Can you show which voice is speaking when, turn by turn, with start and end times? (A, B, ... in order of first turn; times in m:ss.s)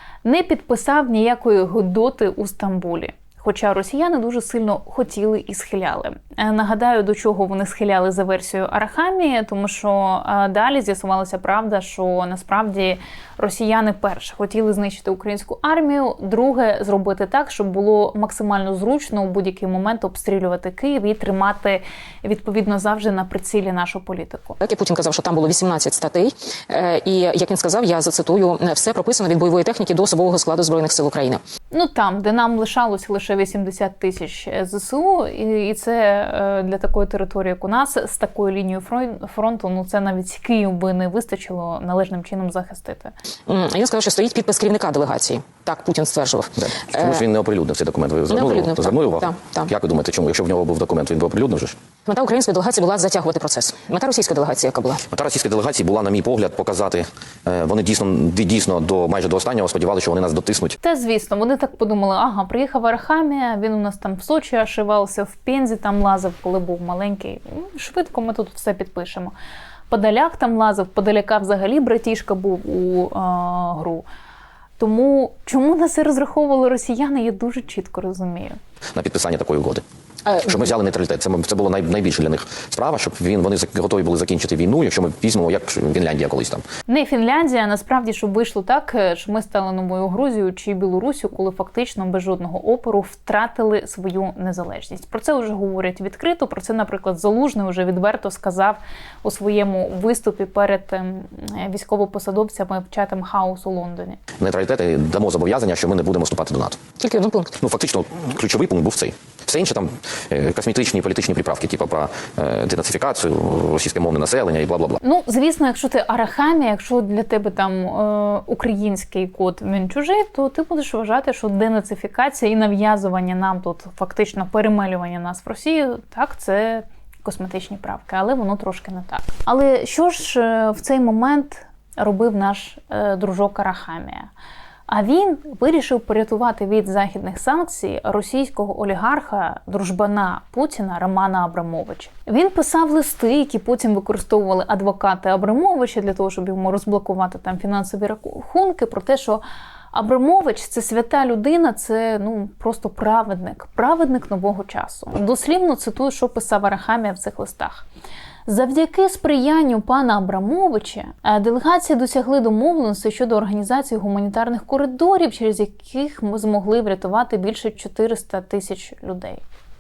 0:00.2-0:24.6 A
0:24.6-0:31.4 B
0:31.7-0:43.1 A
0:43.5-0:47.2 B
0:46.6-0:51.8 C
0:48.3-0:49.7 B
0:52.1-0:55.0 B
0:55.1-1:00.8 C
1:00.8-1:09.4 A
1:09.9-1:14.0 A
1:14.8-1:18.6 A
1:19.0-1:19.8 C
1:20.4-1:26.6 C
1:26.9-1:44.2 A
1:44.4-1:46.8 C
1:47.0-1:47.6 B
1:47.6-1:55.0 C
1:55.0-2:14.3 A
2:14.9-2:29.4 A
2:29.9-2:37.9 A
2:38.5-2:49.4 A